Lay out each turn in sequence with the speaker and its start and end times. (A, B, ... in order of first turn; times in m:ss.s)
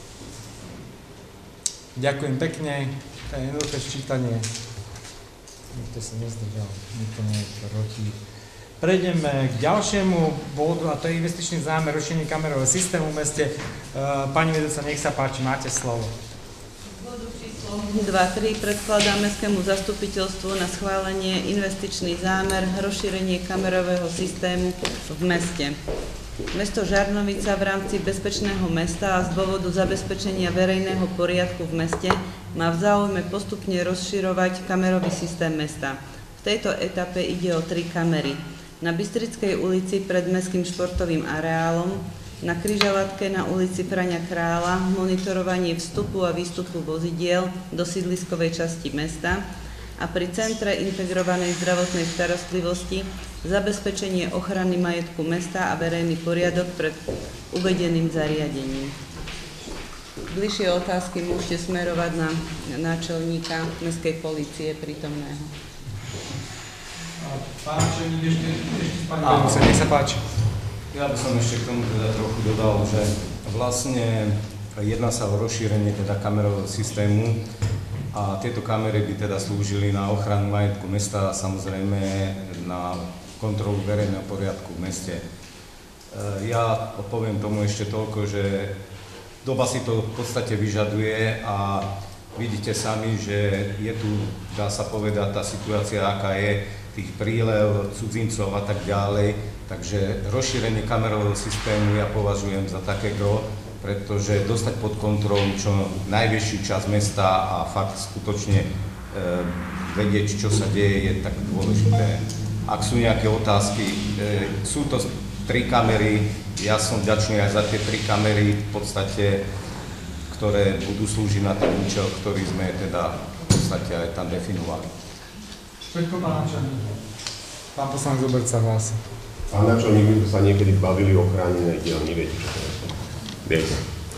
0:02.0-0:04.4 A
0:05.7-0:08.1 A
0:08.8-0:16.1 A
0:17.0-0:25.8 B
0:26.5-0:49.4 B
0:50.0-0:57.0 B
0:57.5-0:58.9 B
1:00.3-1:05.5 B
1:07.2-1:10.2 A
1:09.2-1:09.8 C
1:10.9-1:17.4 C
1:18.1-1:25.2 C
1:26.1-1:28.7 C
1:29.4-1:59.4 C
2:00.3-2:04.9 C
2:05.9-2:06.9 A
2:07.7-2:09.0 A
2:09.5-2:12.9 D
2:13.4-2:13.8 D